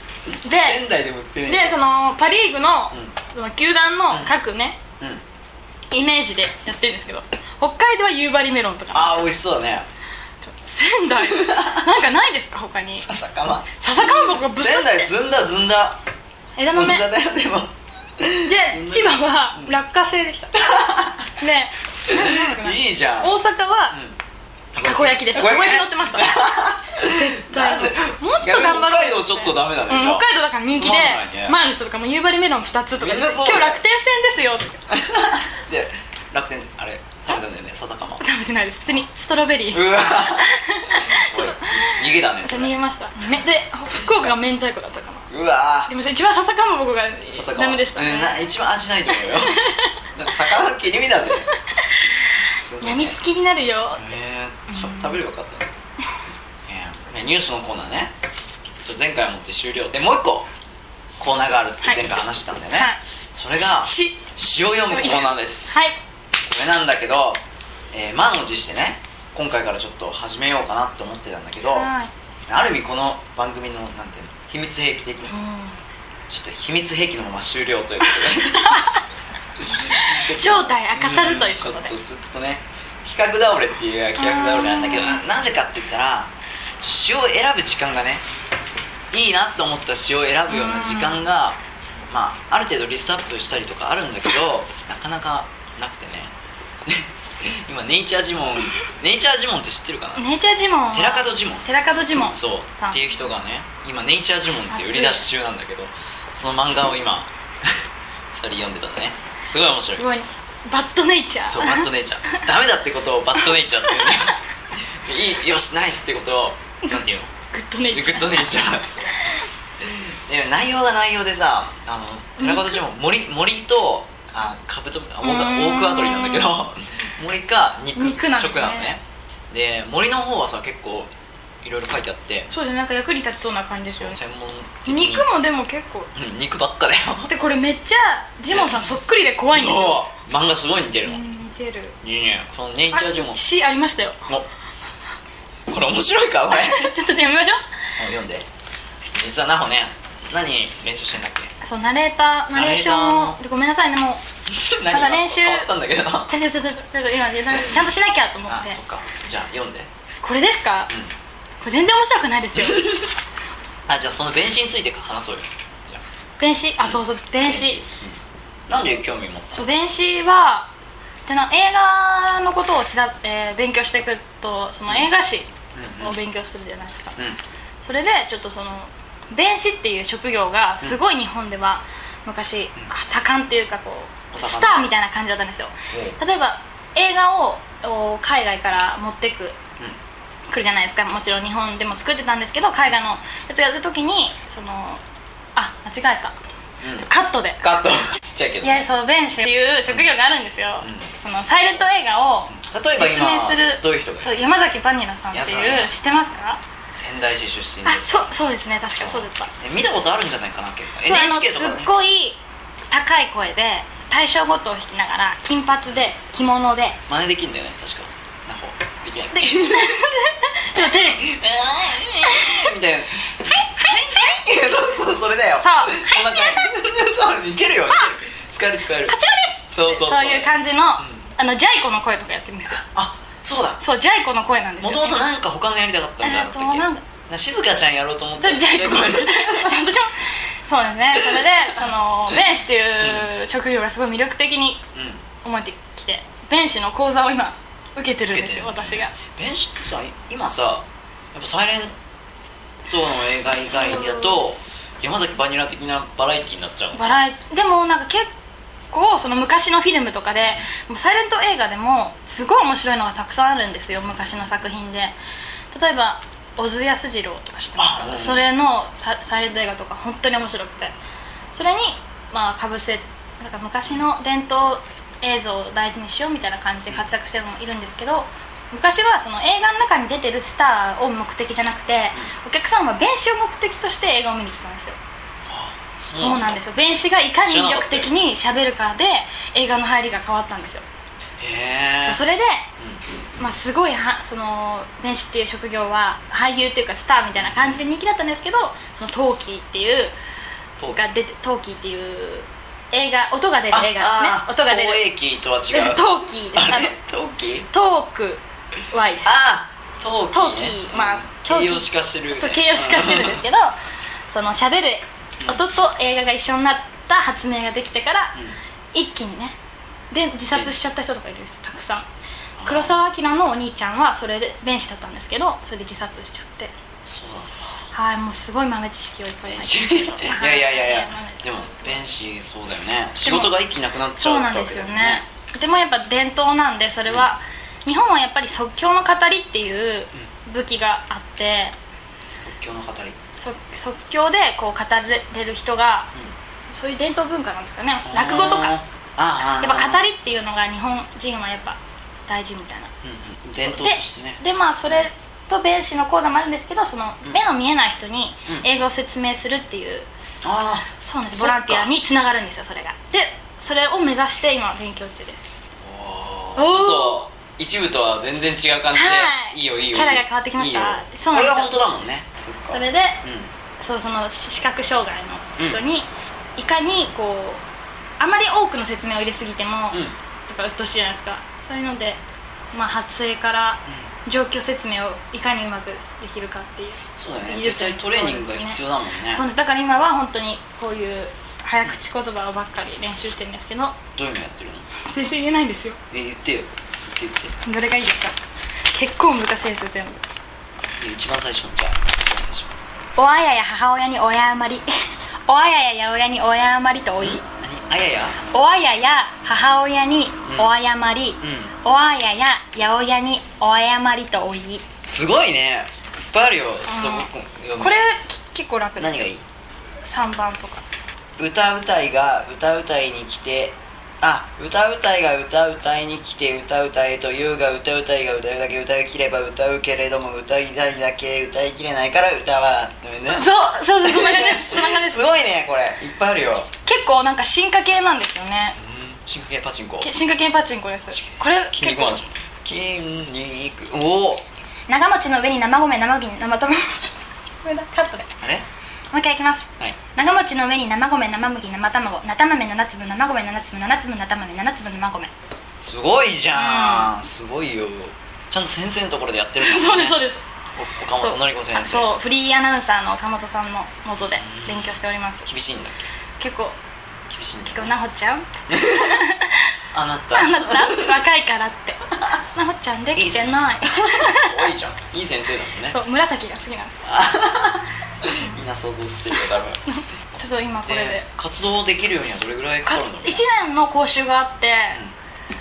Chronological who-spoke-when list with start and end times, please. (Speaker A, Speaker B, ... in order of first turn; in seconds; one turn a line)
Speaker A: 0.4-0.8
Speaker B: 0.4-1.8
Speaker A: 1.4-4.8
Speaker A: 5.9-9.3
Speaker B: 8.9-9.9
Speaker A: 10.4-13.1
Speaker B: 11.1-11.9
Speaker B: 13.0-16.0
Speaker A: 13.8-15.1
Speaker A: 16.6-17.1
Speaker B: 16.6-19.8
Speaker A: 18.4-20.6
Speaker B: 20.5-21.2
Speaker A: 21.4-24.0
Speaker B: 22.1-23.4
Speaker B: 23.9-24.2
Speaker B: 24.7-31.6
Speaker A: 24.8-34.8
Speaker B: 32.9-33.8
Speaker B: 34.9-38.2
Speaker A: 38.2-45.3
Speaker B: 39.7-42.7
Speaker B: 45.3-45.9
Speaker A: 45.9-48.5
Speaker B: 47.3-49.6
Speaker A: 49.1-50.4
Speaker B: 50.1-51.5
Speaker A: 51.3-54.1
Speaker B: 52.6-53.2
Speaker B: 54.0-55.7
Speaker A: 54.7-55.2
Speaker B: 56.7-58.1
Speaker B: 58.8-60.5
Speaker B: 61.2-65.8
Speaker A: 62.7-63.0
Speaker A: 63.6-64.2
Speaker A: 64.9-66.0
Speaker B: 66.4-67.4
Speaker B: 67.9-71.9
Speaker A: 71.7-72.1
Speaker B: 72.5-75.3
Speaker A: 75.3-75.8
Speaker B: 76.3-78.8
Speaker A: 78.1-79.0
Speaker B: 79.6-88.2
Speaker A: 79.8-81.9
Speaker A: 84.2-85.2
Speaker B: 89.1-96.3
Speaker A: 90.5-91.2
Speaker B: 96.8-100.2
Speaker A: 100.2-103.2
Speaker B: 100.9-101.6
Speaker B: 102.2-107.7
Speaker A: 104.7-105.3
Speaker B: 108.3-110.1
Speaker A: 109.9-112.5
Speaker B: 111.5-114.4
Speaker A: 113.4-114.3
Speaker B: 115.0-117.3
Speaker A: 116.9-119.5
Speaker B: 117.9-119.2
Speaker B: 119.8-131.1
Speaker A: 122.4-122.8
Speaker A: 125.2-126.6
Speaker A: 127.9-128.9
Speaker B: 131.6-132.5
Speaker A: 132.5-134.2
Speaker B: 133.9-135.3
Speaker A: 134.8-136.1
Speaker B: 136.1-137.3
Speaker A: 137.2-140.1
Speaker B: 138.5-139.0
Speaker B: 139.5-141.2
Speaker A: 141.0-141.9
Speaker B: 142.0-143.4
Speaker A: 142.9-144.3
Speaker B: 145.7-147.0
Speaker A: 146.5-147.6
Speaker B: 148.0-148.5
Speaker B: 149.1-151.5
Speaker A: 151.6-154.2
Speaker B: 152.5-153.4
Speaker B: 154.5-156.3
Speaker A: 154.9-158.8
Speaker B: 158.5-159.9
Speaker A: 160.2-160.9
Speaker A: 161.6-163.0
Speaker B: 162.5-163.1
Speaker B: 163.9-166.0
Speaker A: 166.4-167.8
Speaker B: 166.8-169.8
Speaker A: 169.5-170.7
Speaker A: 171.2-175.5
Speaker B: 175.7-176.2
Speaker A: 176.0-177.2
Speaker A: 177.8-189.6
Speaker B: 184.3-184.9
Speaker B: 185.9-186.2
Speaker A: 190.5-195.0
Speaker A: 195.6-196.3
Speaker B: 196.8-197.1
Speaker A: 196.9-197.6
Speaker B: 197.6-198.9
Speaker A: 198.6-206.6
Speaker B: 200.8-201.1
Speaker B: 202.5-204.3
Speaker B: 205.3-206.1
Speaker B: 206.9-211.9
Speaker A: 207.8-209.5
Speaker A: 211.0-212.4
Speaker A: 212.9-217.0
Speaker B: 217.1-220.0
Speaker A: 219.3-221.3
Speaker B: 220.7-229.2
Speaker A: 222.2-222.7
Speaker A: 223.3-224.4
Speaker A: 225.6-226.8
Speaker A: 227.9-228.2
Speaker A: 229.1-232.8
Speaker B: 229.7-231.2
Speaker B: 232.7-233.8
Speaker A: 233.8-235.2
Speaker B: 234.8-239.8
Speaker A: 236.2-237.0
Speaker A: 238.4-244.8
Speaker B: 241.1-241.6
Speaker B: 243.0-243.3
Speaker B: 244.9-245.2
Speaker A: 245.4-249.1
Speaker B: 248.3-251.9
Speaker B: 252.9-257.2
Speaker A: 253.4-254.6
Speaker A: 256.9-258.3
Speaker A: 258.9-265.1
Speaker B: 260.4-260.6
Speaker B: 263.9-264.6
Speaker A: 265.7-270.9
Speaker B: 267.8-268.4
Speaker A: 271.5-285.0
Speaker B: 285.4-286.6
Speaker A: 286.1-290.8
Speaker B: 287.4-288.1
Speaker B: 291.4-292.2
Speaker A: 292.0-292.7
Speaker A: 293.4-300.1
Speaker B: 297.3-297.9
Speaker A: 300.9-305.1
Speaker B: 303.7-307.7
Speaker A: 305.7-306.9
Speaker A: 307.7-309.3
Speaker B: 309.2-313.4
Speaker A: 310.3-313.8
Speaker A: 314.3-318.3
Speaker A: 318.9-319.6
Speaker A: 320.1-322.1
Speaker B: 320.5-320.8
Speaker B: 322.6-323.0
Speaker A: 322.6-326.7
Speaker B: 327.1-327.6
Speaker A: 327.9-332.1
Speaker B: 329.5-335.2
Speaker A: 333.2-333.5
Speaker A: 334.2-341.7
Speaker B: 342.3-343.2
Speaker A: 343.4-348.7
Speaker B: 348.0-350.1
Speaker A: 349.6-352.9
Speaker B: 353.0-355.1
Speaker A: 353.6-360.1
Speaker B: 360.4-361.9
Speaker A: 361.0-365.4
Speaker B: 365.8-373.5
Speaker A: 366.6-367.3
Speaker A: 368.9-371.8
Speaker A: 372.7-373.2
Speaker A: 373.8-377.6
Speaker A: 378.2-382.2
Speaker A: 382.7-394.0
Speaker B: 387.2-389.4
Speaker B: 394.1-394.9
Speaker A: 395.0-396.0
Speaker B: 396.1-397.5
Speaker A: 397.6-398.3
Speaker A: 398.9-400.2
Speaker B: 401.0-402.8
Speaker A: 403.1-404.9
Speaker A: 405.5-407.4
Speaker B: 407.2-408.4
Speaker A: 408.5-414.8
Speaker B: 410.4-410.7
Speaker B: 411.4-411.7
Speaker B: 415.0-417.9
Speaker A: 416.9-419.2
Speaker B: 419.0-419.4
Speaker A: 420.0-420.8
Speaker B: 421.4-436.7
Speaker A: 433.3-435.2
Speaker A: 436.8-438.8
Speaker B: 438.8-440.1
Speaker A: 440.0-442.2
Speaker B: 441.1-444.4
Speaker A: 444.9-448.3
Speaker B: 448.4-448.6
Speaker A: 449.1-455.3
Speaker B: 455.8-460.2
Speaker A: 456.5-457.1
Speaker A: 459.6-460.4
Speaker B: 460.8-462.1
Speaker A: 461.2-465.5
Speaker B: 464.2-466.1
Speaker A: 466.4-466.8
Speaker B: 467.3-467.9
Speaker A: 467.6-469.7
Speaker B: 468.7-469.2
Speaker B: 469.9-471.2
Speaker A: 470.3-472.0
Speaker A: 472.5-474.6
Speaker B: 473.1-476.0
Speaker A: 475.9-477.2
Speaker B: 477.0-479.8
Speaker A: 478.3-478.6
Speaker A: 479.3-481.2
Speaker B: 480.8-483.4
Speaker A: 482.8-485.0